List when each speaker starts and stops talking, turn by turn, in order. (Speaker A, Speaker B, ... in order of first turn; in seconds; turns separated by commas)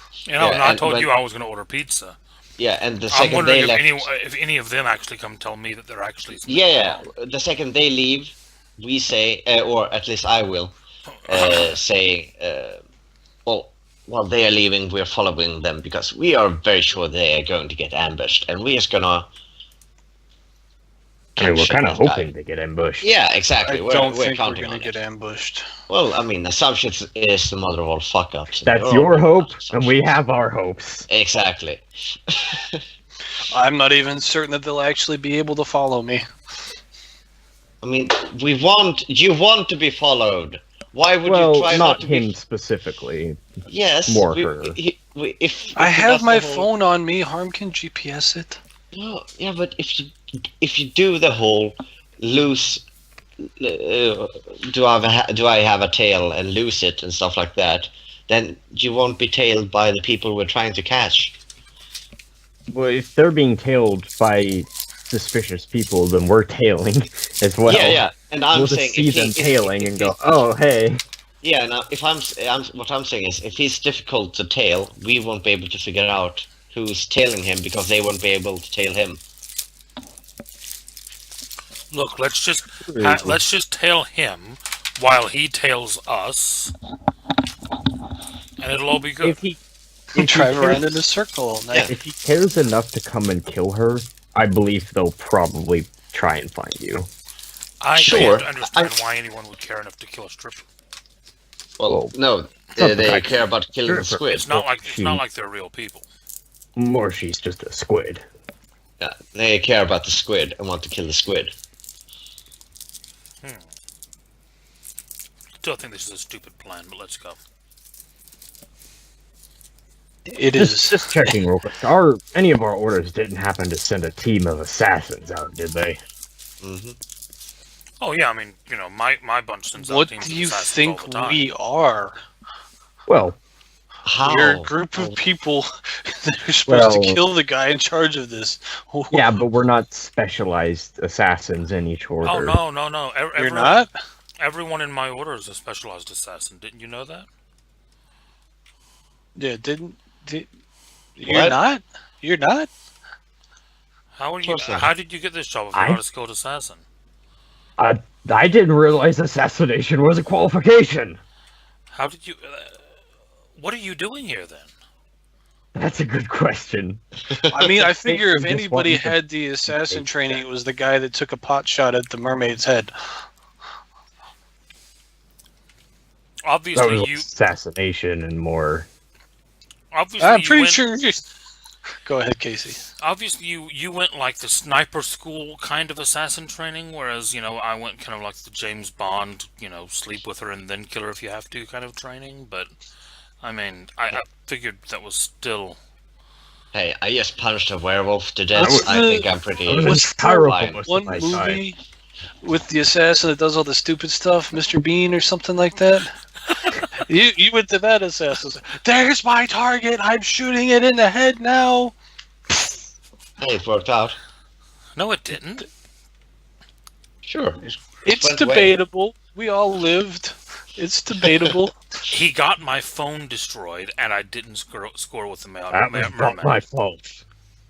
Speaker A: 0.3-2.2, Speaker B: 0.4-1.1, Speaker B: 2.6-4.1, Speaker A: 3.1-7.0, Speaker B: 6.5-10.7, Speaker A: 11.1-11.8, Speaker B: 11.3-12.8, Speaker B: 13.4-19.3, Speaker B: 21.4-22.3, Speaker C: 21.4-23.1, Speaker B: 23.0-24.9, Speaker D: 23.6-25.6, Speaker B: 25.9-29.9, Speaker C: 28.6-31.1, Speaker B: 31.1-32.8, Speaker D: 33.5-36.2, Speaker B: 37.8-42.3, Speaker C: 41.2-43.4, Speaker B: 43.7-46.7, Speaker C: 44.0-44.8, Speaker D: 45.8-48.6, Speaker B: 48.9-52.8, Speaker B: 53.5-61.4, Speaker C: 62.7-71.0, Speaker B: 67.7-70.1, Speaker B: 71.4-79.2, Speaker A: 81.9-86.7, Speaker C: 82.8-83.4, Speaker A: 88.6-89.4, Speaker C: 89.2-89.6, Speaker C: 90.1-90.9, Speaker D: 90.1-91.9, Speaker C: 91.8-97.1, Speaker A: 97.8-100.6, Speaker B: 97.9-99.0, Speaker B: 101.8-104.5, Speaker C: 101.9-102.1, Speaker C: 102.8-105.2, Speaker A: 104.3-106.1, Speaker C: 106.8-108.2, Speaker B: 109.0-111.5, Speaker A: 115.6-117.4, Speaker D: 120.3-121.3, Speaker C: 120.5-126.0, Speaker B: 126.6-127.0, Speaker A: 128.0-131.4, Speaker D: 129.8-132.2, Speaker C: 133.1-133.4, Speaker B: 134.0-135.2, Speaker D: 134.2-139.4, Speaker C: 136.7-137.2, Speaker C: 139.1-142.6, Speaker A: 142.2-143.9, Speaker D: 143.3-143.9, Speaker A: 144.4-147.3, Speaker D: 149.3-150.5, Speaker D: 151.2-152.7, Speaker B: 151.2-151.6, Speaker A: 154.1-156.8, Speaker B: 154.4-154.9, Speaker C: 155.7-156.0, Speaker C: 157.8-161.2, Speaker A: 161.9-162.8, Speaker A: 163.6-164.7, Speaker C: 165.7-167.0, Speaker D: 167.5-172.9, Speaker C: 168.0-170.4, Speaker A: 176.4-177.3, Speaker C: 176.7-178.9, Speaker A: 179.9-180.8, Speaker D: 180.2-181.2, Speaker D: 182.0-182.8, Speaker A: 183.0-192.7, Speaker A: 193.4-195.8, Speaker B: 196.7-200.8, Speaker D: 198.5-201.8, Speaker C: 198.6-198.9, Speaker C: 199.7-201.6, Speaker D: 202.4-206.1, Speaker D: 206.9-211.9, Speaker B: 213.4-214.2, Speaker A: 214.9-215.7, Speaker B: 217.2-218.7, Speaker D: 218.0-221.8, Speaker A: 222.1-226.6, Speaker C: 225.7-227.2